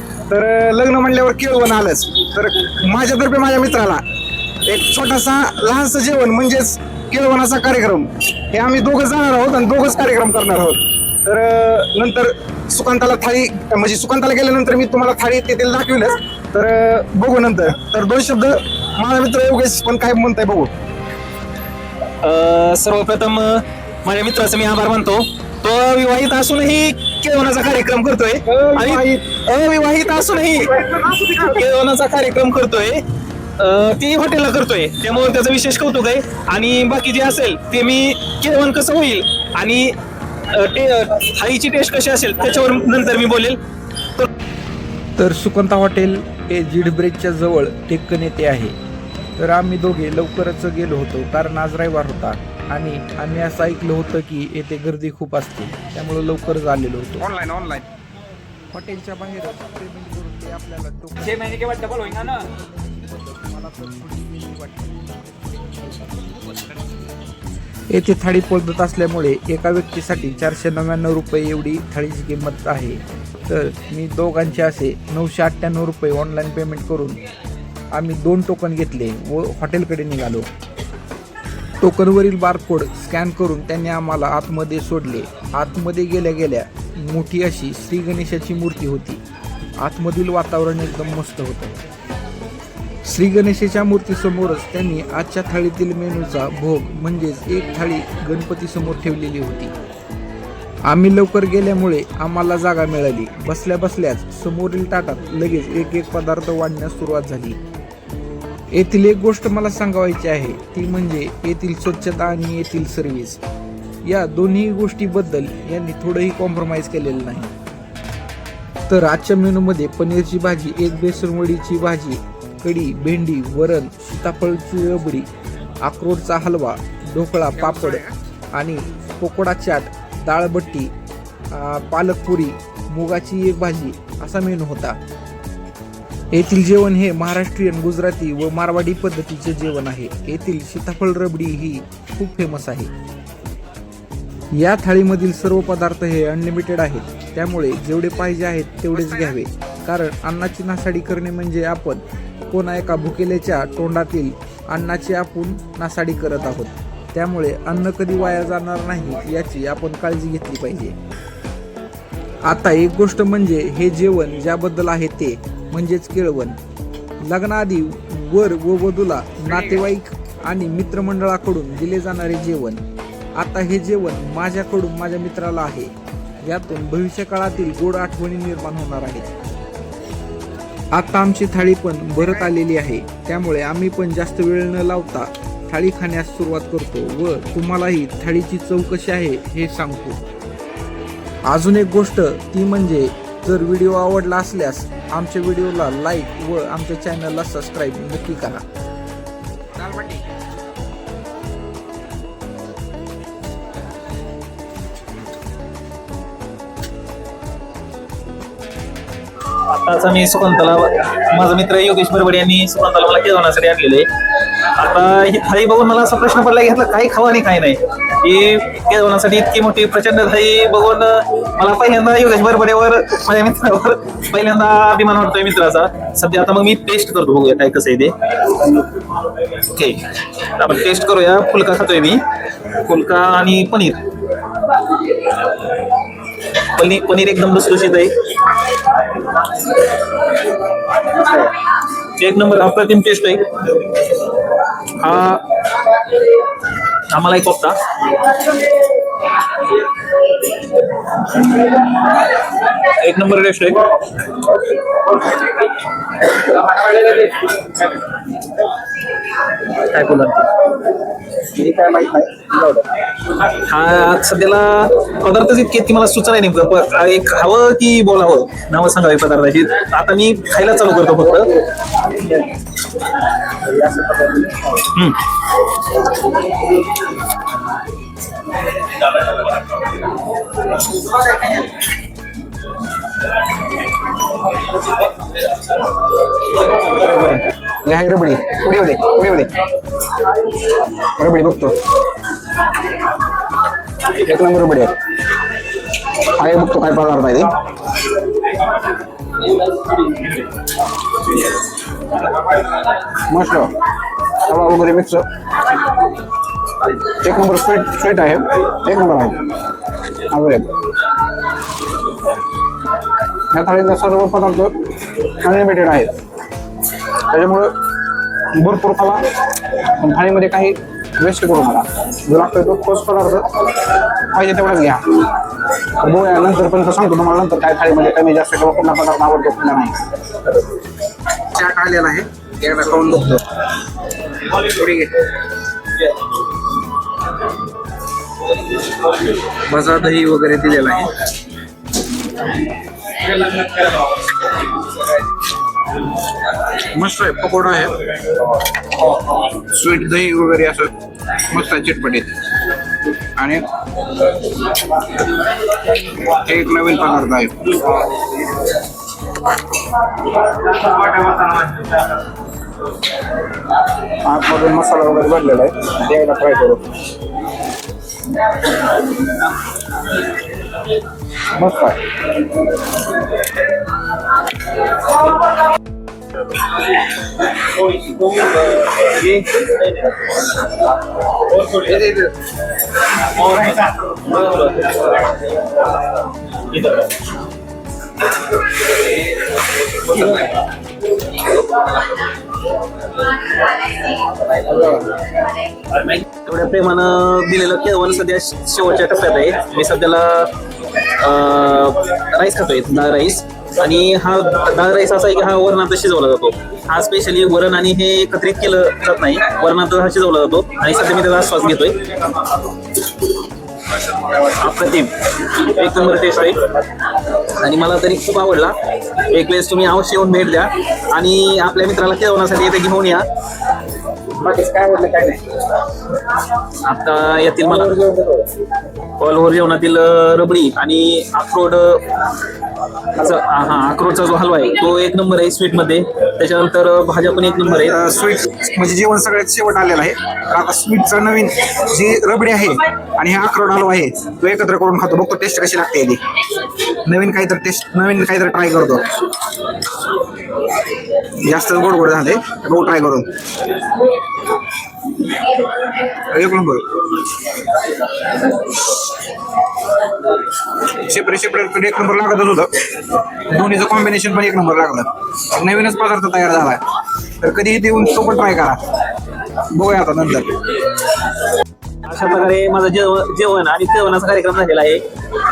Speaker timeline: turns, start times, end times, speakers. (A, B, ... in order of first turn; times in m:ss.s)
0:00.3-0:04.0 A
0:04.6-0:20.7 A
0:22.2-0:30.7 B
0:28.5-0:29.3 A
0:30.6-0:31.6 A
0:31.4-0:33.0 B
0:33.6-0:39.9 B
0:40.5-0:43.6 B
0:45.2-0:48.8 C
0:49.4-0:57.2 C
0:57.2-0:57.9 A
0:58.7-1:07.1 C
1:07.9-1:17.2 C
1:17.9-1:20.5 C
1:21.8-1:29.2 C
1:29.8-1:31.8 C
1:33.0-1:39.7 C
1:40.9-1:47.6 C
1:48.7-1:53.4 C
1:54.0-1:57.5 C
1:58.9-2:05.3 C
2:05.8-2:08.0 C
2:07.6-2:08.1 A
2:08.5-2:10.9 C
2:11.5-2:15.0 C
2:16.3-2:22.9 C
2:24.5-2:41.0 C
2:42.5-2:46.6 C
2:47.2-2:52.8 C
2:53.4-2:55.9 C
2:56.4-2:59.3 C
3:00.9-3:10.2 C
3:11.5-3:18.6 C
3:19.8-3:20.2 A
3:29.7-3:34.1 B
3:34.7-3:48.7 B
3:49.7-3:50.0 B
3:50.6-3:52.2 B
3:52.8-3:54.0 B
3:56.7-3:58.2 B
4:01.2-4:01.5 B
4:02.2-4:03.4 B
4:05.0-4:05.4 B
4:07.1-4:07.8 B
4:12.8-4:13.9 B
4:16.6-4:17.4 B
4:19.8-4:20.5 B
4:21.5-4:22.8 A
4:23.4-4:31.5 B
4:33.7-4:34.7 A
4:34.9-4:35.2 B
4:46.8-4:49.5 A
4:51.2-4:51.8 A
4:54.2-4:54.9 A
4:56.3-4:57.5 A
5:03.3-5:03.7 A
5:04.4-5:05.2 A
5:07.2-5:09.4 A
5:10.3-5:10.7 A
5:13.5-5:16.1 A
5:17.3-5:17.7 A
5:18.5-5:19.2 A
5:19.9-5:23.5 A
5:24.3-5:25.3 A
5:26.0-5:30.0 A
5:31.5-5:33.4 A
5:34.6-5:35.2 A
5:39.7-5:41.1 A
5:46.8-5:47.9 A
5:49.7-5:50.9 A
5:51.5-5:52.3 A
5:53.4-5:53.6 A
5:56.3-5:57.7 A
6:04.2-6:06.9 A
6:11.5-6:12.0 A
6:19.0-6:20.1 B
6:21.6-6:22.3 B
6:23.3-6:25.2 B
6:26.6-6:27.1 B
6:30.0-6:30.5 B
6:36.2-6:40.5 B
6:41.2-6:52.2 B
6:54.3-6:56.7 B
6:57.5-6:58.8 B
6:59.3-7:03.2 B
7:04.4-7:05.6 A
7:06.8-7:08.0 B
7:07.6-7:08.4 A
7:09.2-7:12.0 B
7:13.2-7:18.0 B
7:17.7-7:26.2 A
7:27.0-7:29.1 A
7:31.4-7:33.3 A
7:36.3-7:36.8 A
7:41.0-7:42.7 A
7:43.4-7:46.8 A
7:47.4-7:48.8 A
7:49.7-7:50.5 A
7:52.0-7:55.0 B